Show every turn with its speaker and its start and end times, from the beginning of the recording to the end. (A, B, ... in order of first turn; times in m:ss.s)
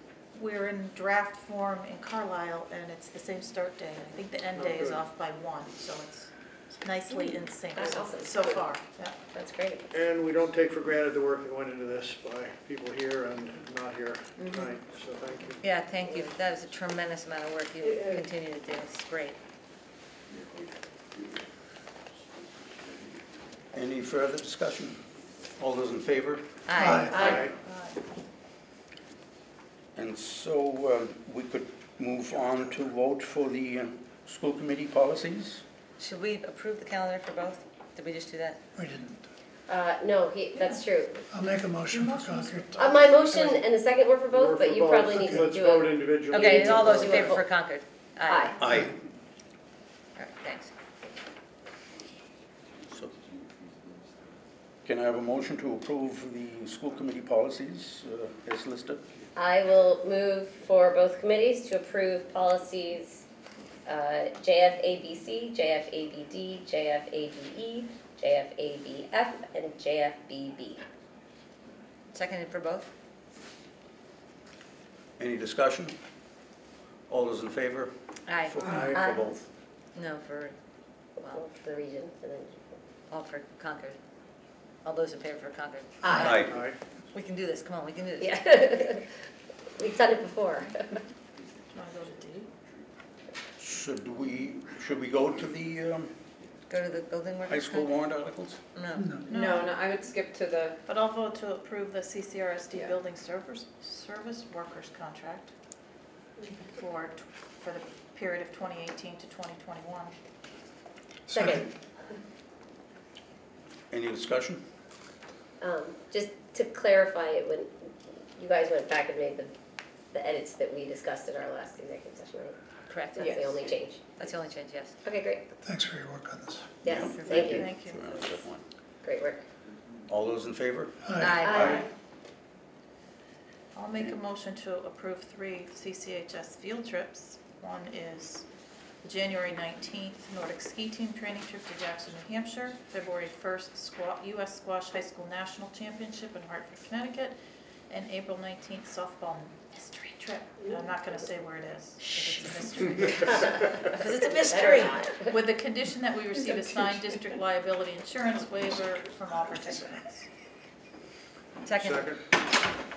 0:00.3-0:09.2 A
0:04.6-0:05.0 B
0:07.7-0:08.7 C
0:09.3-0:09.9 C
0:09.9-0:15.6 B
0:14.4-0:14.7 D
0:15.6-0:19.4 E
0:17.8-0:18.2 C
0:23.7-0:25.0 F
0:25.6-0:26.6 F
0:26.7-0:27.5 E
0:26.8-0:27.1 G
0:26.8-0:27.5 B
0:27.0-0:27.5 C
0:27.6-0:28.0 A
0:30.0-0:35.6 F
0:36.0-0:38.6 E
0:38.8-0:39.2 G
0:39.7-0:41.3 C
0:41.3-0:42.7 G
0:41.8-0:43.2 A
0:42.8-0:47.5 C
0:43.3-0:43.6 B
0:44.3-0:47.2 B
0:46.3-0:48.7 E
0:48.3-0:48.6 C
0:48.6-0:49.0 F
0:50.2-0:50.7 E
0:54.8-0:59.0 F
0:59.4-1:03.2 C
1:03.9-1:10.8 C
1:12.1-1:12.9 E
1:15.2-1:16.0 F
1:17.1-1:17.9 F
1:18.3-1:18.6 E
1:18.5-1:19.0 F
1:18.5-1:19.4 B
1:18.9-1:19.4 C
1:20.0-1:20.6 E
1:21.2-1:22.6 C
1:23.1-1:24.0 E
1:24.8-1:26.5 E
1:26.0-1:26.5 C
1:26.2-1:26.5 F
1:26.4-1:26.8 B
1:27.1-1:28.9 E
1:28.2-1:29.0 C
1:29.7-1:31.0 C
1:31.7-1:32.5 A
1:33.6-1:36.1 F
1:36.7-1:38.0 E
1:37.5-1:38.6 F
1:38.8-1:39.2 E
1:39.2-1:39.7 A
1:39.3-1:40.8 D
1:40.9-1:45.5 A
1:46.7-1:50.1 A
1:51.3-1:51.7 C
1:53.9-1:54.6 F
1:55.6-1:59.5 C
2:00.1-2:02.6 C
2:02.9-2:03.2 E
2:03.1-2:04.0 C
2:03.2-2:03.7 D
2:04.2-2:05.0 E
2:05.0-2:05.5 C
2:05.6-2:06.7 G
2:06.8-2:07.7 C
2:06.8-2:08.6 F
2:07.2-2:07.6 E
2:07.4-2:08.2 A
2:09.0-2:09.4 C
2:10.1-2:11.8 F
2:11.1-2:11.3 G
2:11.2-2:11.7 E
2:11.4-2:11.9 C
2:11.5-2:11.9 A
2:13.7-2:18.5 A
2:19.0-2:27.4 A
2:27.9-2:40.3 A
2:34.5-2:35.2 C
2:41.6-2:42.1 E
2:41.8-2:42.2 B